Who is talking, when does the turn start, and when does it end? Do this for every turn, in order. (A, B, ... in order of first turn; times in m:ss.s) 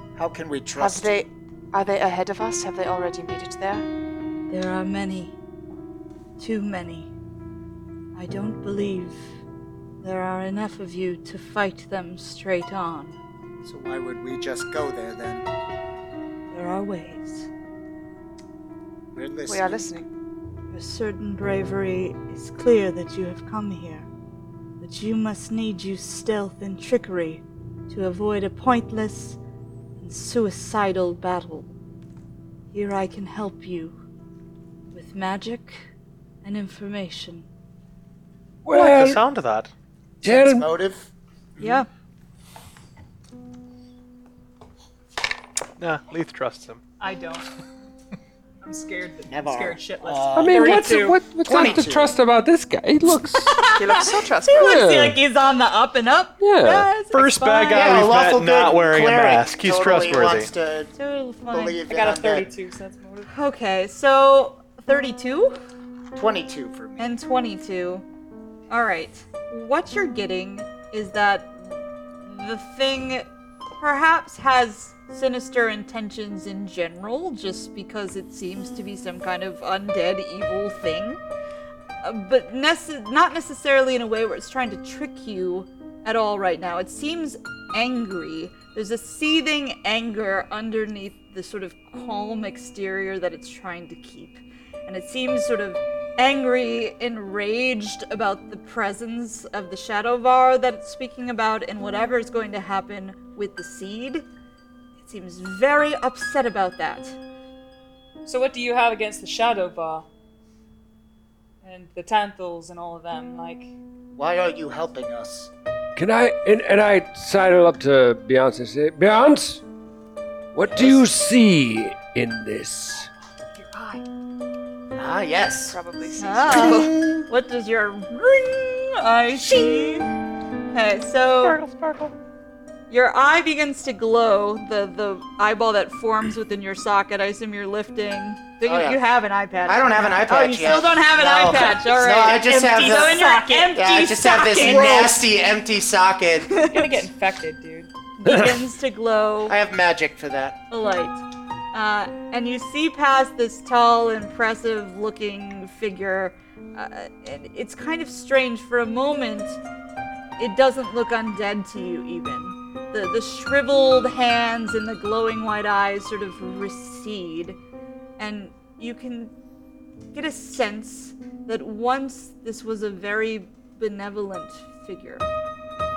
0:00.2-0:01.3 A
0:00.8-0:03.8 B
0:04.5-0:05.3 C
0:06.4-0:07.1 C
0:08.1-0:09.2 C
0:10.0-0:13.2 C
0:13.6-0:15.5 A
0:16.5-0:17.5 C
0:19.1-0:20.0 A
0:19.5-0:20.0 B
0:20.7-0:24.1 C
0:24.8-0:29.4 C
0:30.0-0:31.7 C
0:32.7-0:34.0 C
0:34.9-0:35.9 C
0:36.4-0:37.5 C
0:38.6-0:39.2 D
0:38.7-0:39.7 E
0:40.2-0:41.1 A
0:40.2-0:40.7 D
0:41.6-0:41.9 C
0:45.8-0:46.8 E
0:47.0-0:47.4 F
0:48.6-0:51.2 F
0:49.3-0:50.9 A
0:50.3-0:53.6 D
0:51.4-0:52.1 A
0:53.5-0:58.0 C
0:53.8-0:54.8 B
0:54.6-0:55.2 D
0:56.4-0:56.9 D
0:57.1-1:00.5 E
0:57.7-1:00.9 A
1:00.9-1:01.8 C
1:01.5-1:02.5 A
1:01.8-1:03.3 F
1:03.3-1:05.5 C
1:06.1-1:07.1 A
1:07.0-1:08.0 C
1:08.7-1:13.3 C
1:13.8-1:21.2 C
1:22.0-1:44.2 C
1:45.0-1:47.2 C
1:48.2-1:50.0 F
1:51.6-1:53.7 F
1:54.1-1:55.5 A
1:56.0-1:59.6 D
2:00.5-2:03.1 D
2:00.6-2:01.0 A
2:03.6-2:04.0 F
2:04.9-2:05.8 A
2:05.7-2:06.9 B
2:06.2-2:10.1 C
2:06.5-2:07.3 A
2:10.7-2:11.6 C
2:11.4-2:12.1 E
2:12.9-2:25.2 C
2:18.6-2:19.0 A
2:19.6-2:26.6 A
2:22.2-2:25.2 F
2:26.5-2:27.0 C
2:26.6-2:27.9 F
2:28.2-2:29.6 C
2:28.3-2:28.5 D
2:29.5-2:30.6 A
2:30.7-2:31.2 C
2:31.7-2:39.6 C
2:40.4-2:47.6 C
2:48.2-2:49.3 C
2:50.1-2:55.2 C